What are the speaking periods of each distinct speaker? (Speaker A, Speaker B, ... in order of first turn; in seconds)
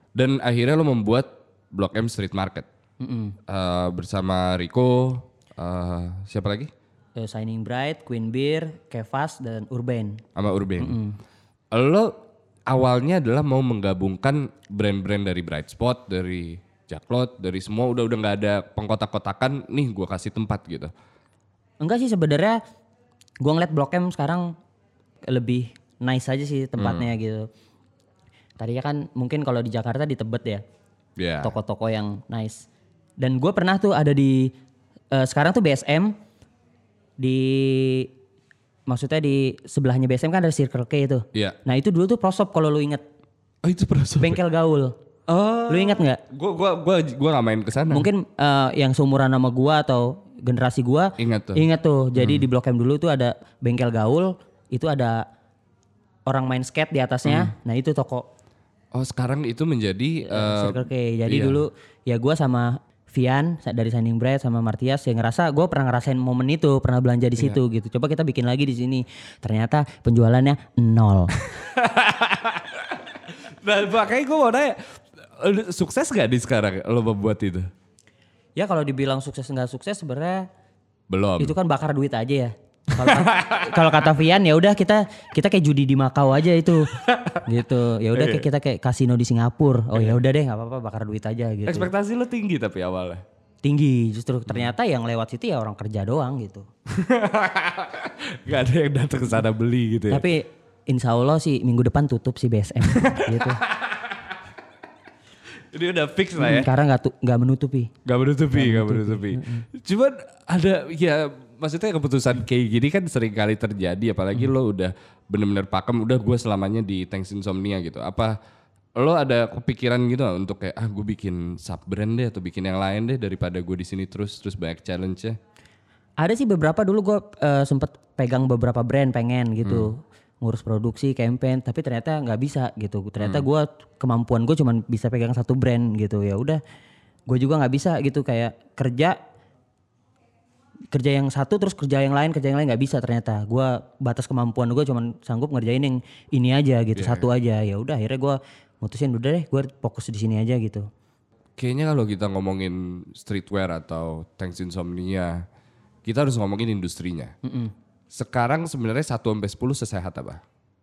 Speaker A: 0.1-2.7, 3.5-6.7, 10.3-11.0, 11.7-20.9, 26.8-27.1, 31.2-31.5, 43.6-44.4, 45.3-48.1, 51.2-51.6, 52.1-52.5, 57.2-57.5, 58.9-61.6, 71.5-77.7, 81.1-81.5, 82.9-84.0, 86.9-87.5, 88.1-88.4, 91.7-93.2, 96.9-100.3, 102.8-104.3, 105.7-106.7, 108.0-118.3, 119.0-125.4, 129.6-129.9, 146.9-147.3, 151.6-155.4, 156.0-157.3, 158.1-160.4
Speaker B: 3.0-3.4, 7.2-10.2, 10.8-11.2, 21.8-22.6, 23.4-24.6, 25.3-27.5, 28.6-30.6, 31.4-32.6, 33.2-34.5, 35.1-36.1, 37.2-38.1, 38.9-43.0, 44.2-45.0, 45.7-46.2, 47.9-55.2, 56.2-58.3, 60.2-71.3, 78.6-80.5, 81.4-91.9, 93.6-96.7, 100.1-103.6, 106.4-107.9, 108.5-109.7, 126.2-136.6, 137.3-139.2, 140.9-150.9, 157.4-157.7